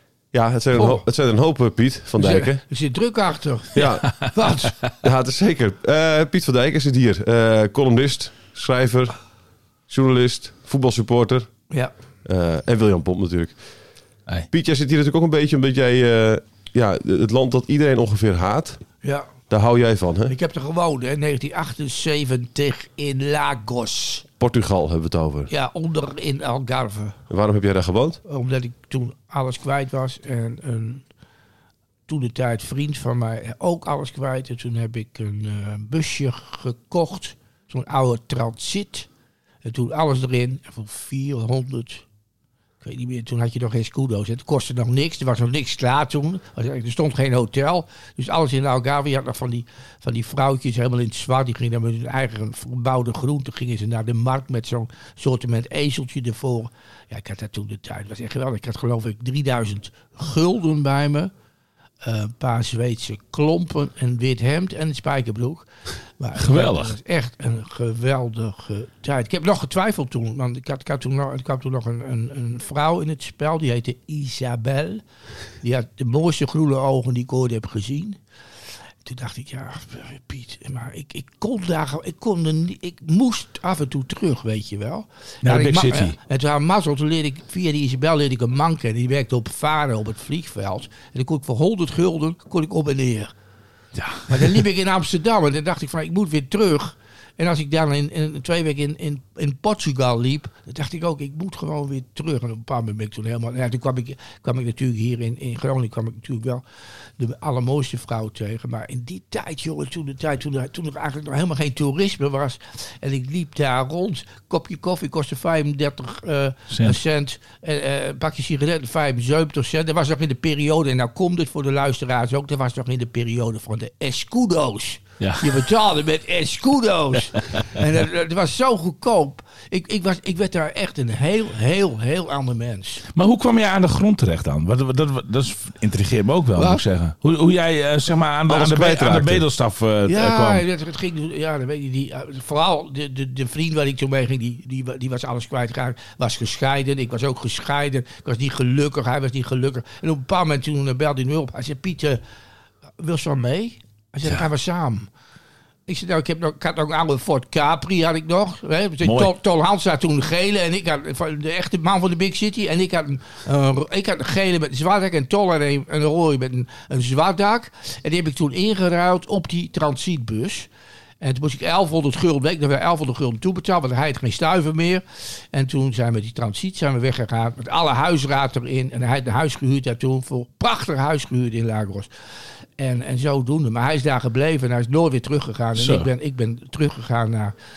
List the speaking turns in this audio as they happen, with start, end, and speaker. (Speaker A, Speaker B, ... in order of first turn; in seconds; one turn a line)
Speaker A: 0.3-2.6
Speaker B: 0.8-1.0
Speaker B: 2.2-4.8
Speaker A: 3.7-4.3
Speaker A: 4.8-9.2
Speaker A: 9.9-11.5
Speaker A: 12.2-13.6
Speaker A: 14.5-18.8
Speaker B: 19.0-19.3
Speaker A: 19.5-20.3
Speaker B: 20.3-24.2
Speaker A: 24.4-25.5
Speaker B: 25.5-27.2
Speaker A: 27.3-28.2
Speaker B: 28.3-31.1
Speaker B: 32.1-39.1
Speaker B: 39.6-42.0
Speaker B: 42.8-61.3
Speaker B: 62.0-75.0
Speaker C: 66.4-66.9
Speaker B: 75.6-78.2
Speaker B: 79.0-93.3
Speaker C: 85.4-86.2
Speaker C: 94.0-94.7
Speaker B: 94.3-106.6
Speaker B: 107.2-133.0
Speaker C: 116.7-117.0
Speaker C: 125.2-125.7
Speaker C: 133.2-140.6
Speaker B: 136.6-136.8
Speaker A: 138.5-139.4
Speaker B: 140.1-152.2
Speaker B: 153.0-155.1
Speaker B: 155.9-170.7
Speaker C: 159.0-159.3
Speaker B: 171.2-182.1
Speaker B: 182.8-187.5
Speaker C: 185.8-186.1